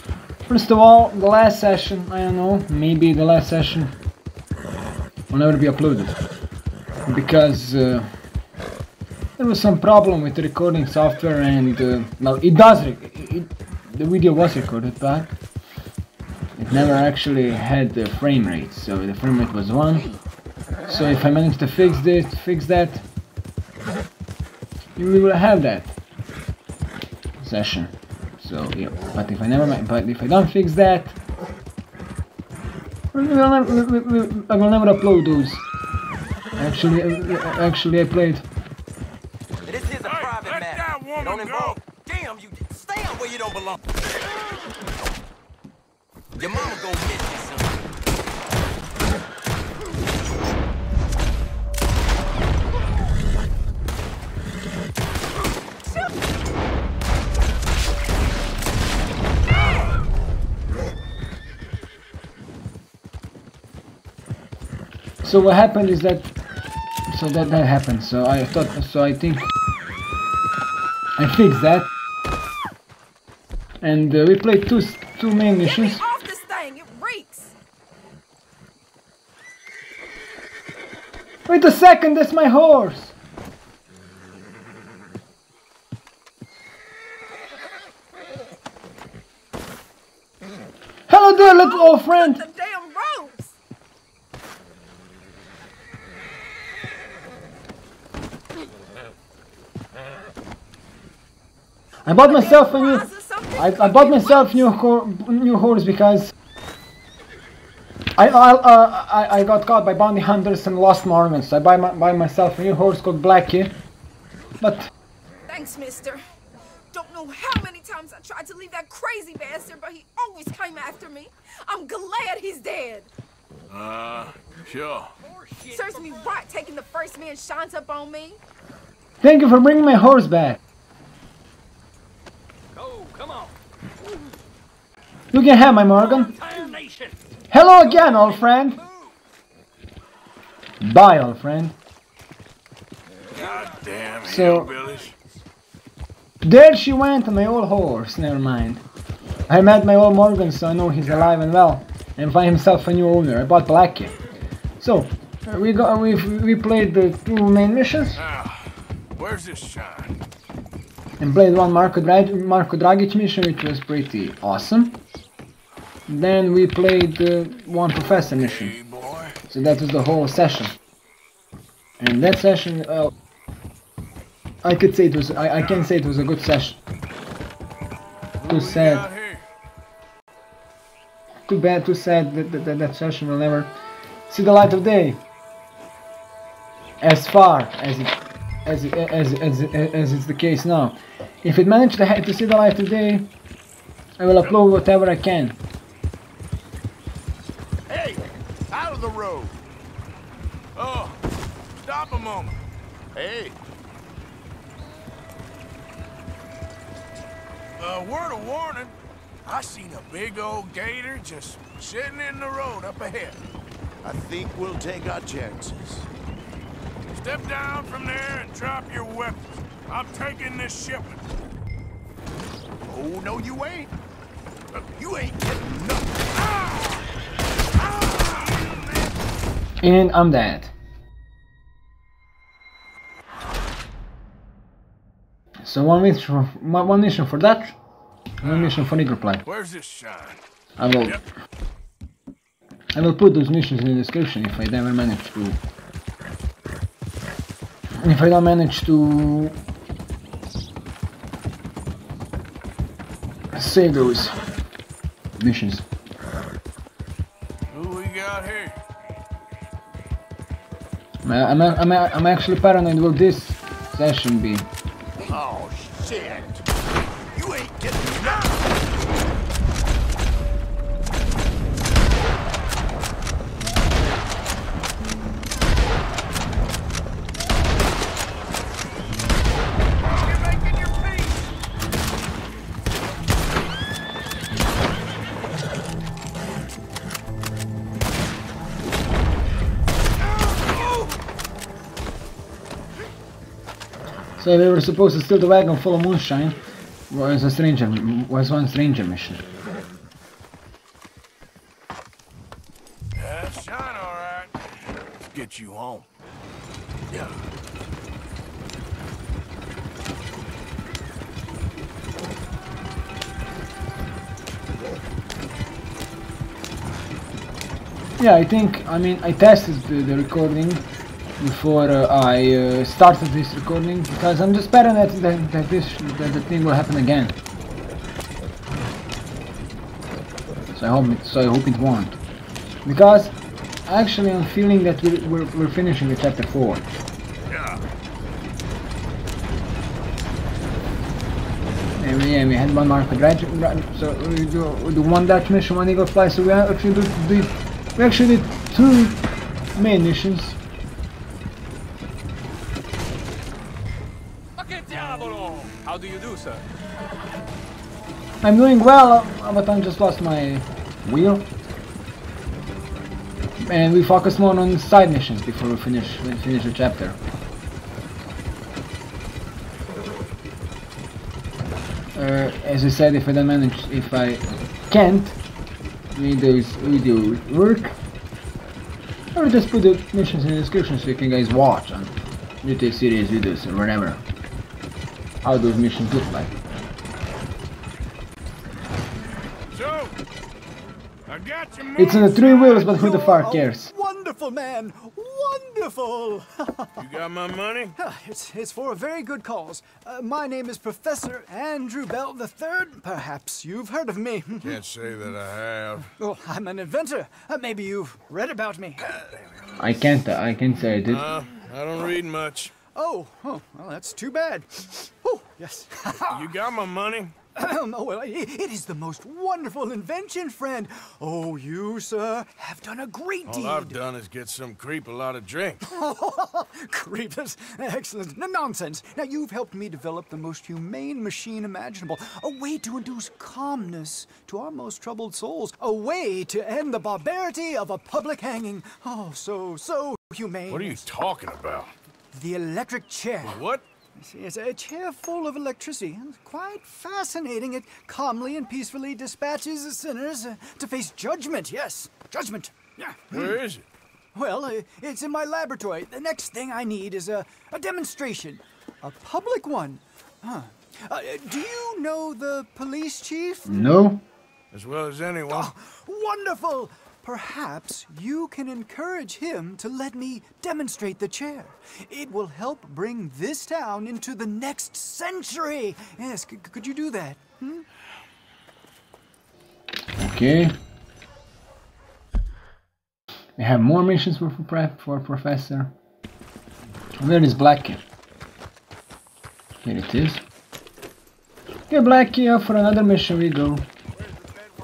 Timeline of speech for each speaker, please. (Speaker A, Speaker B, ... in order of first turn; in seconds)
Speaker A: 0.5-4.0, 5.3-6.2, 7.1-8.1, 9.4-15.3, 16.6-20.2, 20.9-23.0, 25.0-26.0, 27.4-31.2, 33.1-35.6, 36.6-38.5, 65.2-66.3, 67.1-69.5, 71.2-71.9, 73.8-76.0, 81.5-83.2, 91.1-92.4, 102.1-106.3, 108.2-113.8, 114.6-114.9, 129.2-130.6, 135.3-136.4, 137.5-138.8, 140.8-141.8, 144.2-144.7, 146.4-148.8, 149.5-154.1, 154.8-158.2, 161.2-165.0, 166.1-168.8, 169.5-170.7, 172.0-173.1, 174.6-176.8, 178.4-179.1, 181.5-183.7, 184.3-185.2, 187.0-193.3, 194.2-195.6, 229.8-230.7, 235.7-237.8, 238.4-239.5, 240.8-241.2, 242.9-245.6, 248.0-249.6, 253.6-254.3, 255.4-255.8, 261.2-264.7, 294.4-296.6, 297.1-299.4, 318.2-320.8, 321.4-327.4, 330.7-332.2, 332.9-333.4, 333.9-336.9, 342.0-349.2, 349.8-350.6, 358.4-361.5, 363.6-367.2, 372.2-375.4, 376.1-378.0, 379.4-384.2, 385.4-386.5, 392.0-393.9, 409.8-411.2, 463.7-464.2, 480.2-480.8, 483.6-485.9, 487.2-488.0, 489.8-490.4, 491.9-493.9
Speaker B: 39.7-43.8, 46.4-47.8, 125.3-126.2, 132.8-133.5, 136.3-137.1, 354.6-356.6
Speaker C: 40.0-41.8, 123.7-125.1, 143.3-145.2, 158.2-160.2, 168.4-169.4, 175.6-175.9, 178.4-179.5, 200.8-201.2, 201.8-202.6, 207.8-213.4, 217.1-221.2, 238.4-238.8, 239.4-240.4, 257.7-258.8, 303.1-304.5, 305.3-306.1, 307.1-307.4, 337.5-337.8, 389.7-390.1, 391.3-392.8, 397.0-397.9, 404.6-406.1, 411.1-412.8, 416.1-417.4, 423.5-426.0, 440.7-441.9, 443.4-443.8, 453.3-453.9, 464.7-465.7
Speaker D: 75.6-77.5, 91.4-93.6, 102.2-104.7, 115.5-116.2, 116.9-123.1, 125.7-128.4
Speaker E: 197.9-198.2, 392.8-397.0, 398.0-404.8, 406.2-409.1, 412.9-416.4, 417.6-424.0, 425.8-441.1, 442.3-443.6, 444.2-453.6, 454.3-463.7, 465.5-477.9
Speaker F: 199.0-199.6, 214.0-216.1, 222.9-223.9, 224.8-226.1, 265.3-266.6, 267.3-268.8